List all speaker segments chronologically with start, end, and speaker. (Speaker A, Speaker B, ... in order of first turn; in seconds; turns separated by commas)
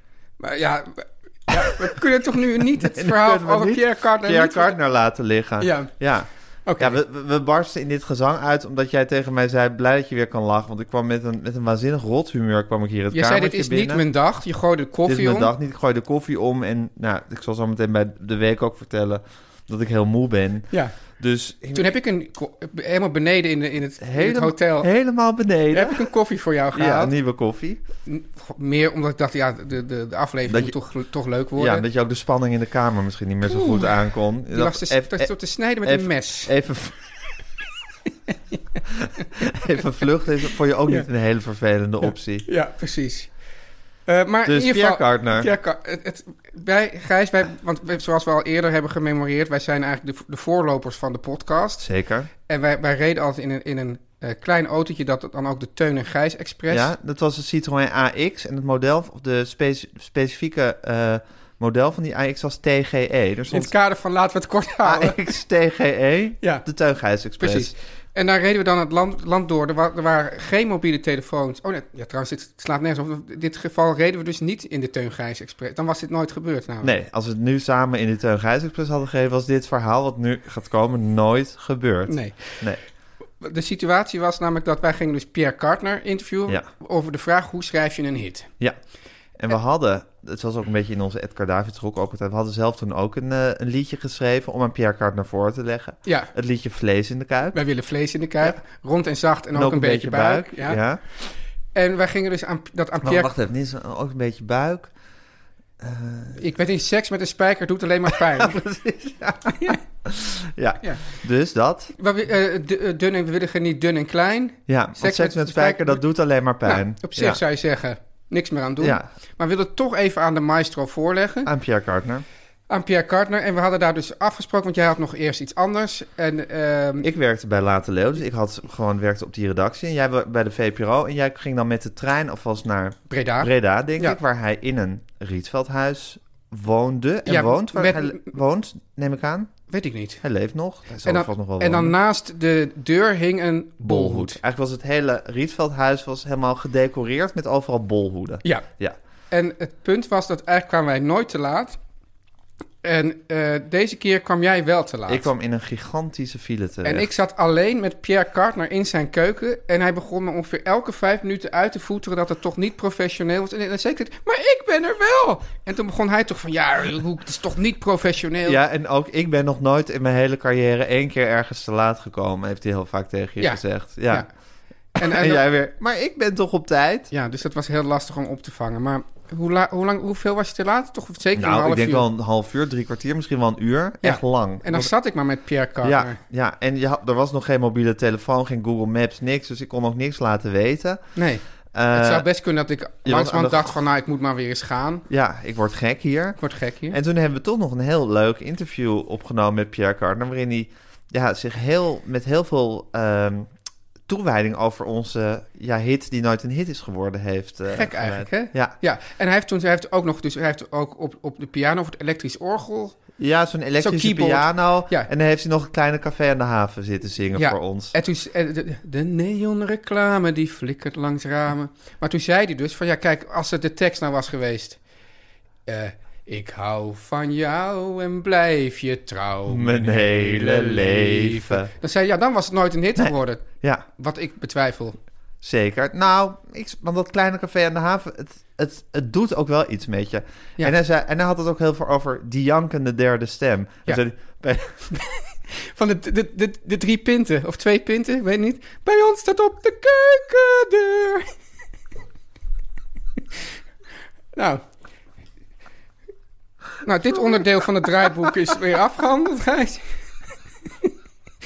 Speaker A: 0.4-4.8, Speaker B: 2.8-14.0, Speaker A: 5.6-5.9, Speaker A: 6.7-7.0, Speaker A: 13.1-15.5, Speaker B: 15.1-21.9, Speaker A: 20.7-20.9, Speaker A: 21.7-24.9, Speaker B: 24.0-26.1, Speaker A: 25.7-27.1, Speaker B: 26.7-27.8, Speaker A: 28.1-31.8, Speaker B: 30.5-30.7, Speaker B: 31.6-37.0, Speaker A: 33.4-34.0, Speaker A: 34.5-36.5, Speaker A: 38.3-38.6, Speaker B: 39.0-42.5, Speaker A: 42.0-43.3, Speaker A: 44.0-51.8, Speaker B: 44.5-45.5, Speaker B: 51.8-52.3, Speaker A: 52.5-56.9, Speaker B: 56.7-63.7, Speaker A: 63.5-65.2, Speaker B: 64.8-67.7, Speaker A: 66.4-66.7, Speaker A: 67.4-77.0, Speaker B: 76.8-82.8, Speaker A: 82.1-82.7, Speaker A: 83.4-88.5, Speaker B: 89.3-97.6, Speaker A: 96.0-96.3, Speaker A: 97.5-100.8, Speaker B: 99.5-101.0, Speaker A: 101.7-103.3, Speaker B: 103.0-104.9, Speaker B: 105.8-106.4, Speaker A: 106.4-108.6, Speaker B: 108.1-111.9, Speaker A: 112.0-116.0, Speaker B: 114.7-117.4, Speaker A: 116.6-121.5, Speaker B: 118.8-119.1, Speaker B: 121.4-122.2, Speaker A: 122.7-127.1, Speaker B: 127.0-139.5, Speaker A: 133.1-134.2, Speaker A: 137.2-138.3, Speaker A: 139.7-140.2, Speaker B: 140.2-141.9, Speaker A: 141.0-144.4, Speaker B: 143.8-148.9, Speaker A: 149.3-151.8, Speaker A: 152.8-155.3, Speaker B: 155.1-157.1, Speaker A: 156.8-168.6, Speaker B: 168.4-174.3, Speaker A: 173.4-174.3, Speaker A: 175.0-175.4, Speaker B: 175.0-177.1, Speaker A: 177.1-182.1, Speaker B: 181.3-184.9, Speaker A: 184.0-186.2, Speaker B: 185.8-191.2, Speaker A: 191.2-195.1, Speaker B: 191.7-192.3, Speaker B: 193.0-193.7, Speaker B: 195.1-203.5, Speaker A: 196.4-197.0, Speaker B: 204.1-208.8, Speaker A: 207.7-213.0, Speaker B: 213.2-217.9, Speaker A: 213.8-215.1, Speaker A: 217.3-224.8, Speaker A: 225.7-235.0, Speaker B: 229.5-231.7, Speaker B: 232.9-233.8, Speaker B: 235.4-244.9, Speaker A: 244.9-251.3, Speaker A: 254.3-254.6, Speaker A: 256.8-259.9, Speaker B: 257.3-257.8